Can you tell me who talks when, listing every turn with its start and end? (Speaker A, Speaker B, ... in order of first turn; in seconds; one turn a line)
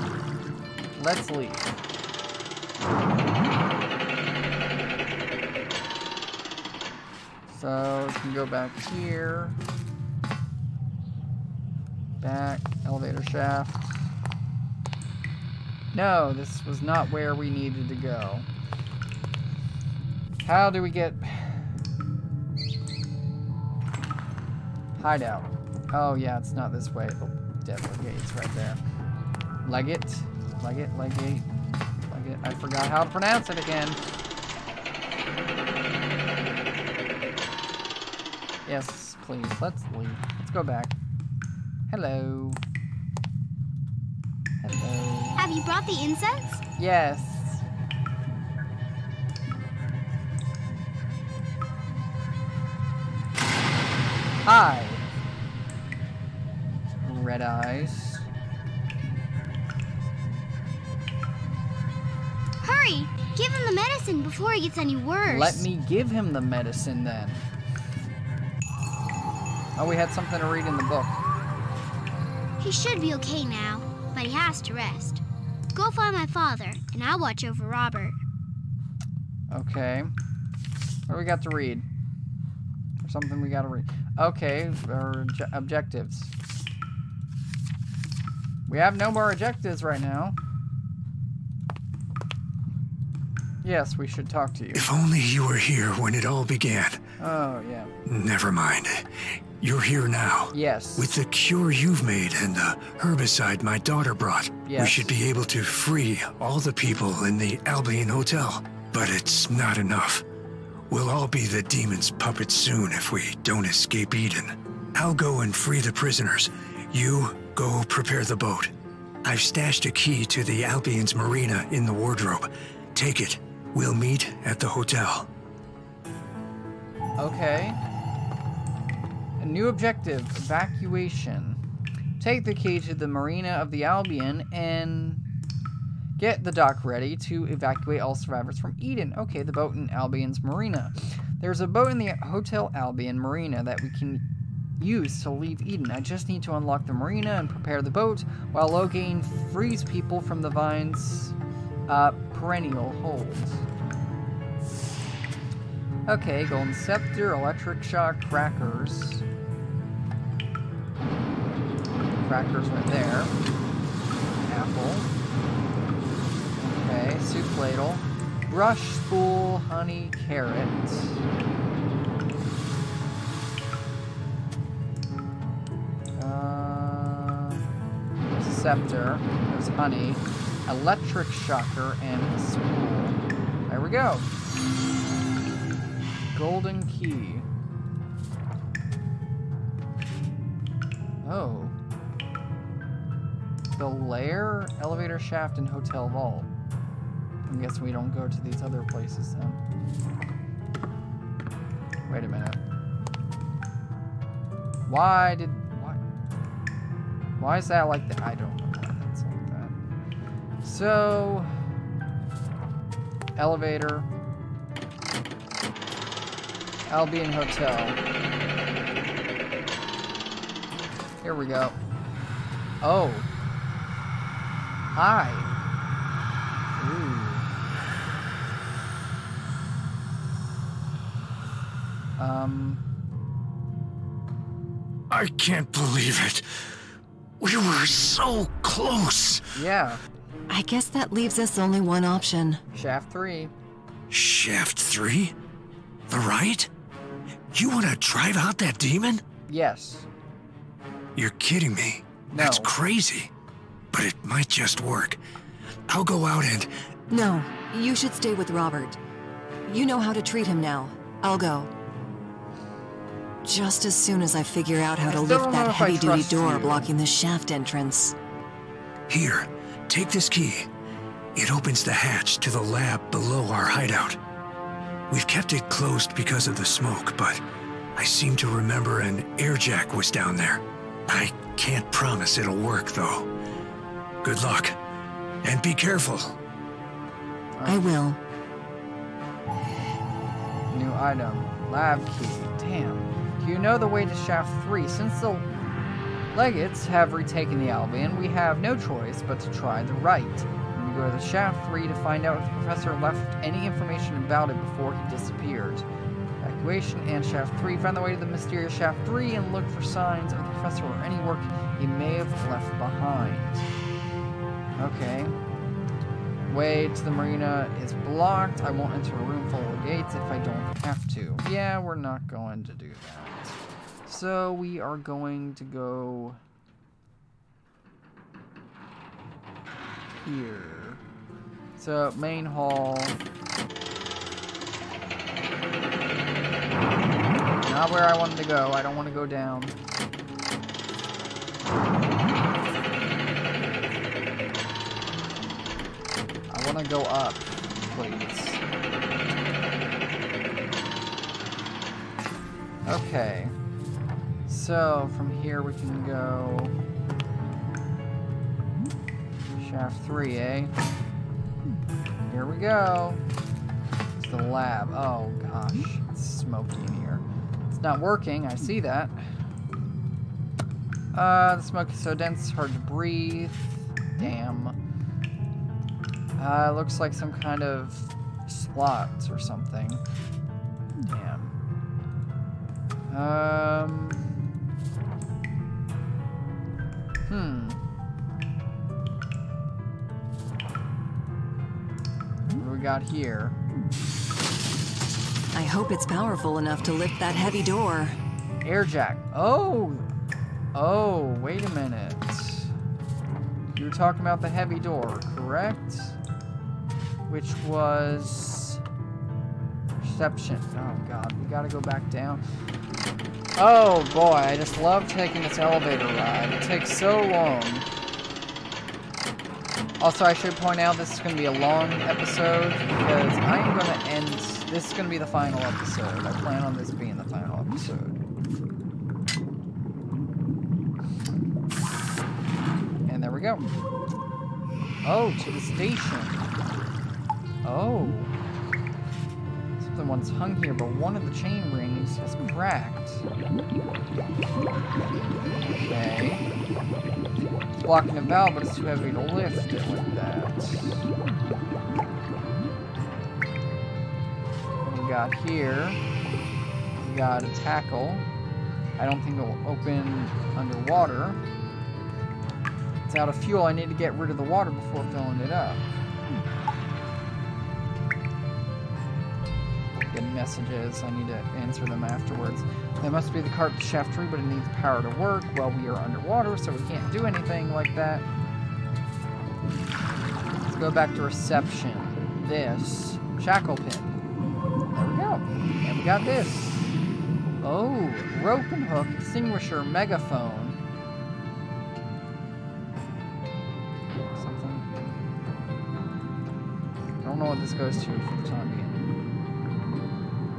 Speaker A: 0.9-1.7
Speaker A: 7.5-9.6
Speaker A: 12.2-14.0
Speaker A: 15.9-18.5
Speaker A: 20.4-21.7
Speaker A: 24.9-28.8
Speaker A: 29.6-31.4
Speaker A: 32.1-34.0
Speaker A: 38.6-40.9
Speaker A: 41.9-42.6
Speaker A: 44.6-45.4
Speaker B: 45.4-46.6
Speaker A: 46.8-47.6
Speaker A: 54.4-55.1
Speaker A: 57.0-58.3
Speaker B: 62.6-65.6
Speaker A: 65.2-67.5
Speaker A: 69.8-71.3
Speaker B: 72.6-75.2
Speaker B: 75.7-78.2
Speaker A: 79.5-80.1
Speaker A: 81.1-81.8
Speaker A: 83.0-86.3
Speaker A: 88.7-90.3
Speaker A: 93.6-94.8
Speaker C: 94.7-97.0
Speaker A: 97.2-97.9
Speaker C: 98.0-110.2
Speaker A: 100.5-101.1
Speaker A: 104.6-105.1
Speaker C: 110.9-118.7
Speaker C: 119.2-125.3
Speaker A: 127.2-127.8
Speaker A: 129.4-131.6
Speaker A: 132.2-135.2
Speaker A: 136.2-144.2
Speaker A: 144.8-151.3
Speaker A: 151.9-153.6
Speaker A: 156.1-159.2
Speaker A: 162.2-163.3
Speaker A: 164.4-165.1
Speaker A: 166.6-171.2
Speaker A: 176.2-177.6
Speaker A: 178.2-184.3
Speaker A: 186.3-187.4
Speaker A: 191.2-191.7
Speaker A: 193.8-196.5
Speaker A: 197.5-199.6
Speaker A: 202.1-202.6
Speaker A: 204.9-206.0
Speaker A: 207.4-209.8
Speaker A: 210.6-211.5
Speaker A: 213.3-214.1
Speaker A: 216.9-218.0
Speaker A: 221.2-221.8
Speaker A: 222.8-223.3
Speaker A: 224.9-225.5
Speaker A: 226.8-227.5
Speaker A: 232.2-232.8
Speaker C: 235.1-236.7
Speaker C: 237.4-239.5
Speaker A: 239.5-240.0
Speaker D: 240.5-242.6
Speaker A: 242.7-243.5
Speaker C: 244.1-245.3
Speaker C: 246.1-246.7
Speaker C: 247.5-249.2
Speaker A: 249.5-250.1
Speaker C: 251.2-253.3
Speaker A: 252.3-252.7
Speaker C: 253.9-255.2
Speaker C: 255.9-256.7
Speaker D: 257.1-259.0
Speaker D: 259.6-261.7
Speaker D: 263.4-268.1
Speaker A: 265.0-266.9
Speaker C: 269.1-270.7
Speaker C: 271.3-274.2
Speaker C: 275.1-277.4
Speaker C: 277.9-283.3
Speaker C: 284.2-284.8
Speaker C: 285.4-286.4
Speaker A: 287.6-287.9
Speaker D: 287.6-288.2
Speaker A: 290.7-295.5
Speaker A: 296.3-305.9
Speaker A: 306.4-313.6
Speaker A: 314.8-315.3
Speaker A: 316.5-326.4
Speaker A: 330.2-331.0
Speaker A: 331.8-333.2
Speaker A: 337.6-339.7
Speaker A: 346.5-348.6
Speaker A: 352.9-353.5
Speaker A: 354.5-356.7
Speaker A: 359.6-360.7
Speaker A: 362.3-363.2
Speaker A: 364.1-369.4
Speaker A: 371.1-374.8
Speaker A: 376.4-380.0
Speaker A: 381.1-381.5
Speaker A: 383.1-384.2
Speaker A: 387.3-387.8
Speaker A: 392.6-393.5
Speaker D: 395.5-398.2
Speaker A: 398.6-400.1
Speaker A: 400.7-402.7
Speaker A: 403.7-406.2
Speaker A: 407.3-408.8
Speaker A: 410.0-412.4
Speaker A: 413.6-417.9
Speaker A: 420.0-428.2
Speaker A: 433.1-433.6
Speaker A: 435.0-436.5
Speaker A: 437.6-438.3
Speaker A: 439.8-443.2
Speaker A: 445.8-446.5
Speaker A: 447.8-451.1
Speaker A: 454.8-456.0
Speaker A: 456.9-458.2
Speaker A: 459.0-461.4
Speaker A: 463.0-465.8
Speaker A: 470.1-478.2
Speaker A: 480.6-484.2
Speaker A: 484.9-486.9
Speaker A: 487.6-490.8
Speaker A: 494.3-494.9
Speaker A: 497.2-499.1